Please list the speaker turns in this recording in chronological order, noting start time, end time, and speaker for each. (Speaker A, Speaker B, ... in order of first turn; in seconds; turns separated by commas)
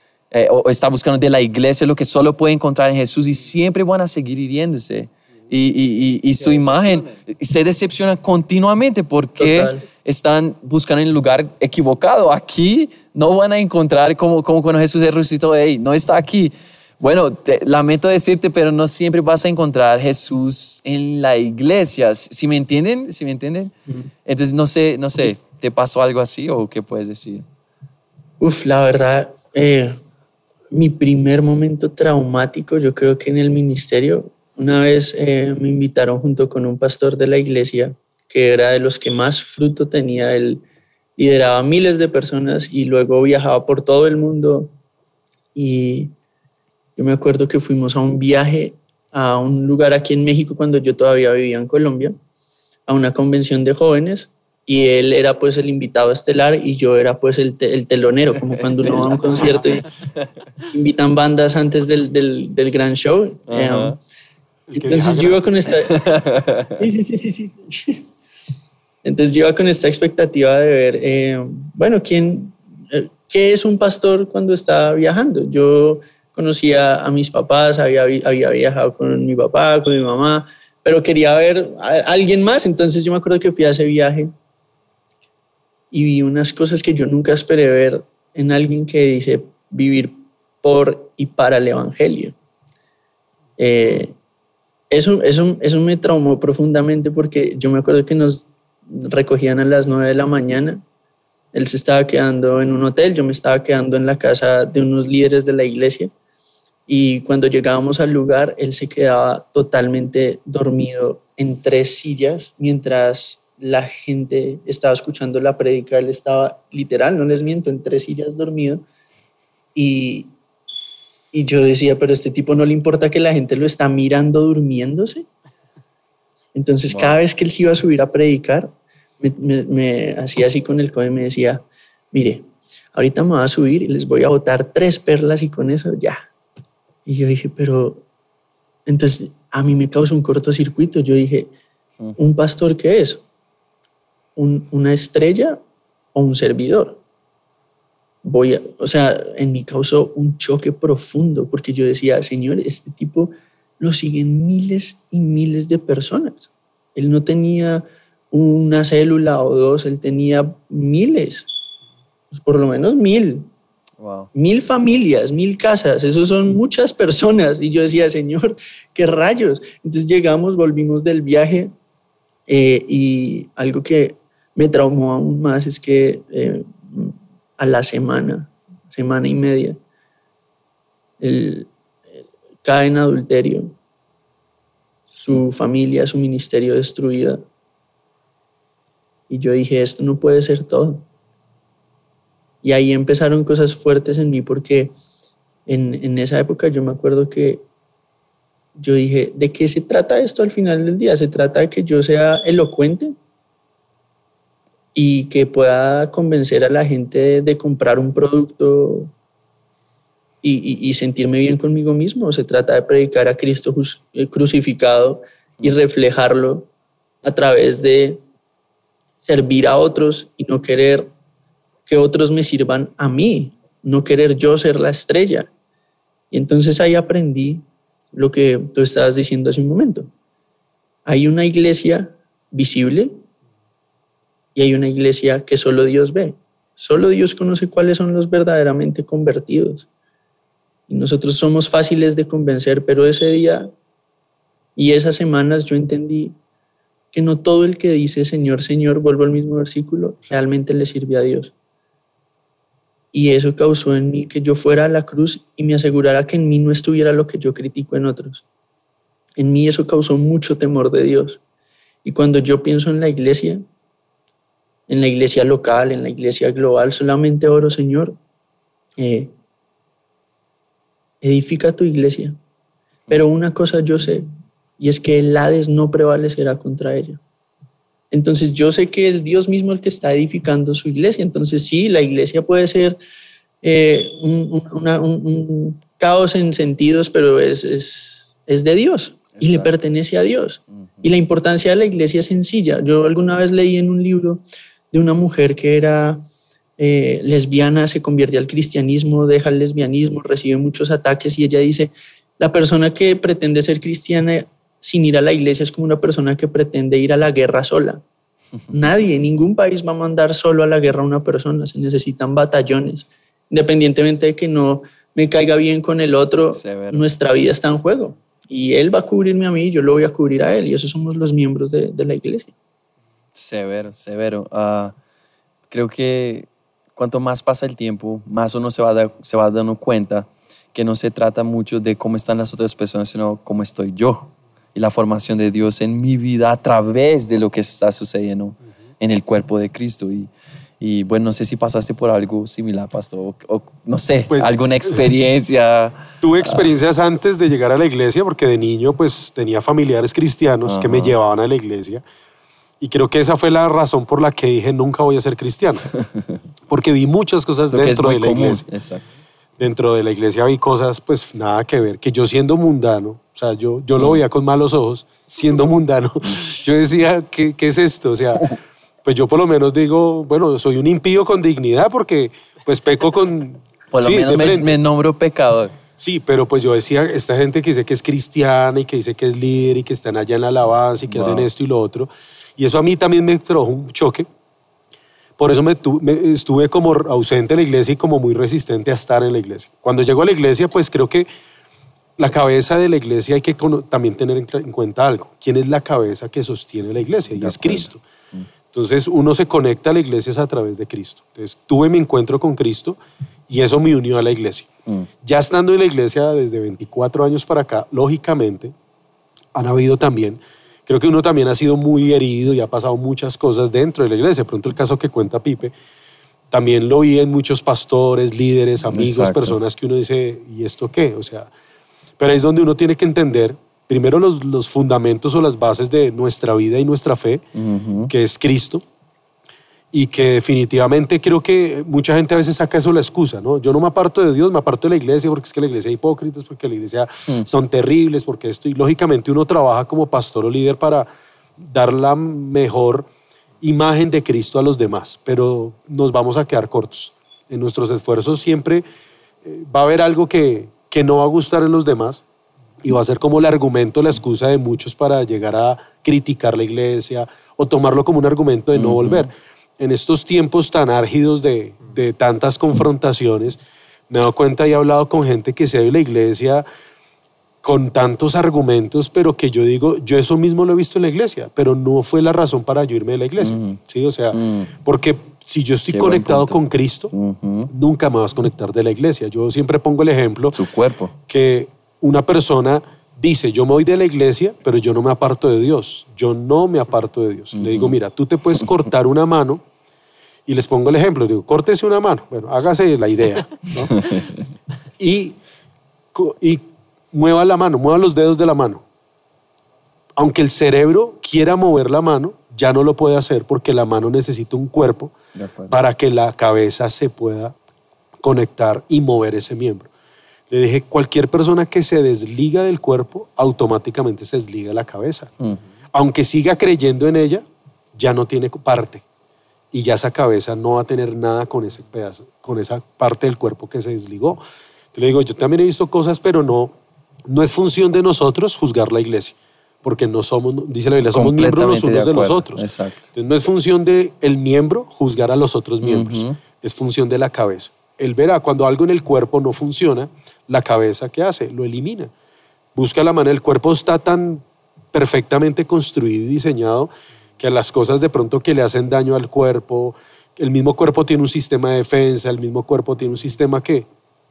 Speaker A: 0.3-27.4, Speaker B: 9.4-9.8, Speaker B: 28.4-30.0, Speaker B: 30.7-40.6, Speaker B: 41.2-44.7, Speaker B: 45.5-46.1, Speaker B: 47.0-52.2, Speaker B: 52.9-59.9, Speaker A: 58.5-59.4, Speaker B: 60.7-64.0, Speaker A: 63.5-64.0, Speaker C: 64.7-65.5, Speaker B: 64.7-66.0, Speaker A: 65.9-66.8, Speaker B: 66.8-68.1, Speaker B: 69.0-84.3, Speaker B: 85.9-92.3, Speaker B: 93.6-94.1, Speaker B: 94.9-100.8, Speaker B: 101.5-106.1, Speaker B: 106.9-118.8, Speaker B: 119.7-120.3, Speaker B: 121.3-125.3, Speaker B: 126.5-136.2, Speaker A: 126.9-127.2, Speaker B: 137.1-138.0, Speaker B: 138.8-141.5, Speaker B: 142.2-143.2, Speaker B: 144.3-145.6, Speaker B: 146.1-147.0, Speaker B: 148.2-161.5, Speaker B: 162.3-163.5, Speaker A: 164.0-164.3, Speaker B: 164.3-171.7, Speaker B: 172.5-179.8, Speaker B: 181.2-181.7, Speaker B: 182.6-183.7, Speaker B: 185.1-187.4, Speaker B: 189.3-191.0, Speaker B: 192.6-194.9, Speaker B: 195.7-197.7, Speaker B: 198.7-203.2, Speaker B: 204.9-209.1, Speaker B: 210.4-216.7, Speaker B: 217.2-218.2, Speaker B: 219.2-221.1, Speaker B: 221.8-225.5, Speaker B: 226.3-230.1, Speaker B: 231.1-233.2, Speaker B: 234.5-239.9, Speaker B: 240.9-243.7, Speaker B: 244.8-246.4, Speaker B: 247.1-251.5, Speaker B: 253.1-258.4, Speaker B: 259.4-261.4, Speaker B: 262.0-263.6, Speaker B: 264.9-268.2, Speaker B: 269.0-269.3, Speaker B: 271.2-272.4, Speaker B: 273.1-274.3, Speaker B: 274.8-277.2, Speaker B: 278.1-283.0, Speaker B: 283.6-296.2, Speaker A: 289.3-289.7, Speaker A: 290.7-291.1, Speaker B: 296.8-308.0, Speaker B: 308.7-322.5, Speaker A: 316.5-317.0, Speaker A: 323.3-324.9, Speaker A: 325.7-346.6, Speaker C: 344.3-345.0, Speaker C: 346.2-352.0, Speaker A: 350.6-351.1, Speaker C: 352.8-355.9, Speaker C: 356.7-358.7, Speaker A: 357.7-359.1, Speaker C: 359.6-374.8, Speaker A: 364.0-364.2, Speaker A: 373.9-375.8, Speaker C: 376.0-384.3, Speaker A: 381.1-381.5, Speaker C: 385.4-391.3, Speaker C: 392.2-398.0, Speaker A: 397.4-398.4, Speaker C: 398.7-404.7, Speaker C: 405.2-408.7, Speaker C: 409.5-415.7, Speaker C: 416.5-421.5, Speaker A: 418.9-419.6, Speaker C: 422.2-427.4, Speaker A: 427.6-428.1, Speaker C: 428.1-428.8, Speaker C: 429.9-441.1, Speaker C: 441.6-443.1, Speaker C: 443.6-448.8, Speaker C: 449.4-452.2, Speaker C: 452.8-466.6, Speaker A: 458.7-459.3, Speaker C: 467.6-477.1, Speaker A: 473.4-473.8, Speaker A: 474.3-474.7, Speaker A: 475.9-477.7, Speaker C: 477.7-480.6, Speaker A: 480.5-481.1, Speaker C: 481.3-489.6, Speaker A: 487.5-487.9, Speaker C: 490.4-494.0, Speaker A: 493.9-494.2, Speaker C: 495.0-495.4, Speaker C: 496.1-498.8, Speaker C: 500.2-505.1, Speaker A: 505.3-505.8, Speaker C: 505.7-507.5, Speaker C: 508.2-509.9, Speaker C: 510.5-515.3, Speaker C: 515.9-517.4, Speaker C: 518.0-519.0, Speaker C: 519.7-524.4, Speaker C: 524.9-526.7, Speaker C: 527.3-542.1, Speaker A: 531.1-533.0, Speaker A: 535.8-536.4, Speaker C: 542.7-553.9